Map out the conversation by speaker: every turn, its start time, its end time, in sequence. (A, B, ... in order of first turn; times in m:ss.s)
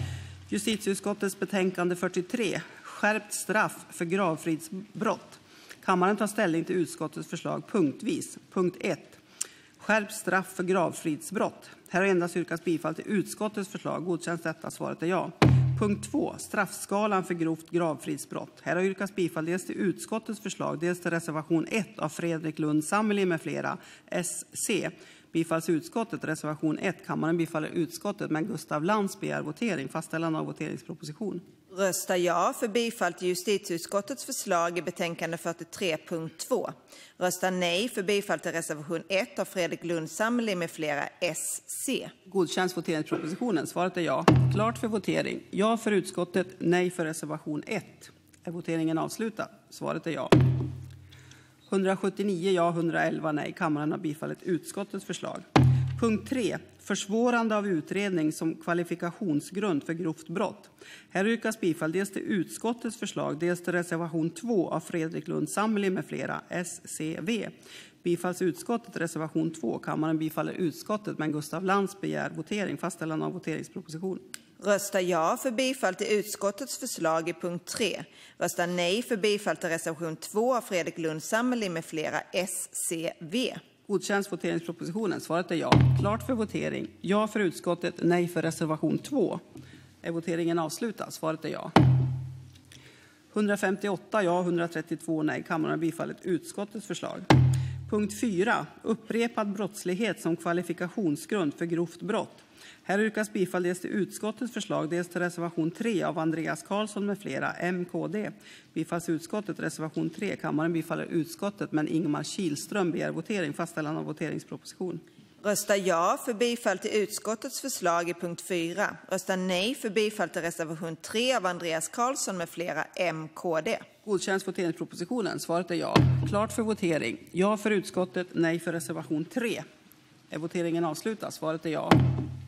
0:00.5-0:09.2 A
0:09.8-0:31.4 A
0:31.7-0:42.1 B
0:42.3-0:50.4 A
0:51.7-1:14.2 A
1:14.6-1:23.6 B
1:23.9-1:29.4 A
1:30.0-1:31.7 A
1:33.3-1:37.3 A
1:37.9-1:55.0 A
1:55.4-2:03.9 B
2:04.0-2:09.6 A
2:10.3-2:12.0 A